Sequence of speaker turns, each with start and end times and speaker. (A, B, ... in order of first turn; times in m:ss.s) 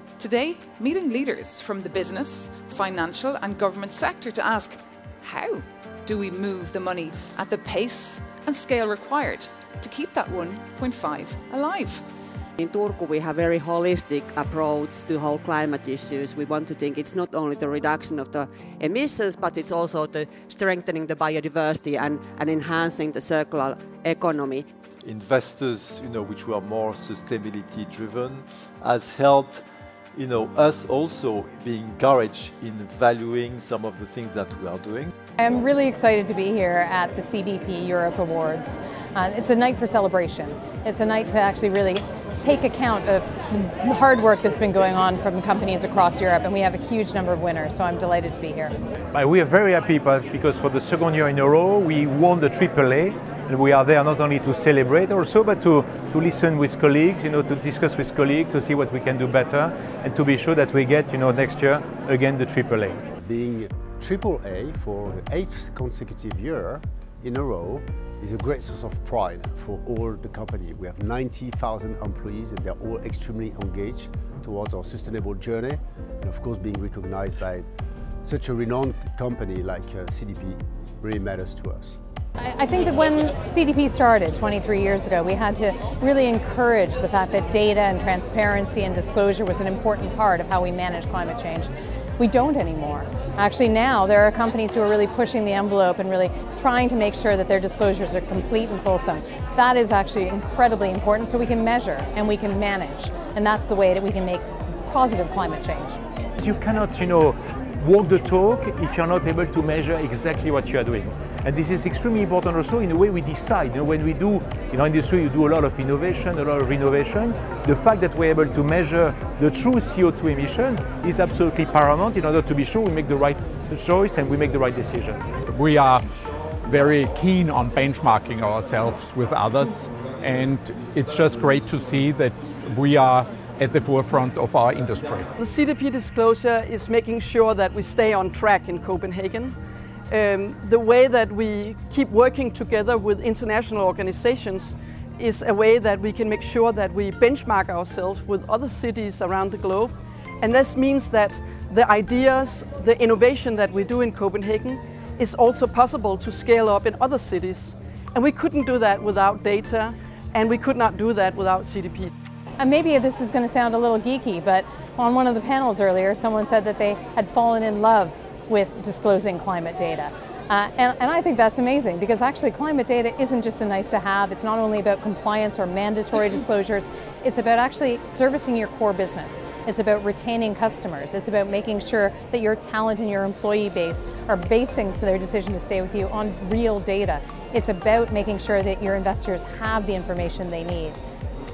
0:00.2-0:12.0 A
0:12.6-0:24.7 B
0:25.0-0:35.1 C
0:35.4-0:48.7 D
0:49.1-1:03.0 E
1:03.2-1:17.7 F
1:18.2-1:22.0 F
1:22.4-1:46.0 D
1:46.4-2:05.3 E
2:05.4-2:06.1 G
2:06.6-2:15.3 G
2:15.4-2:19.6 H
2:20.1-2:42.1 H
2:42.6-3:11.0 D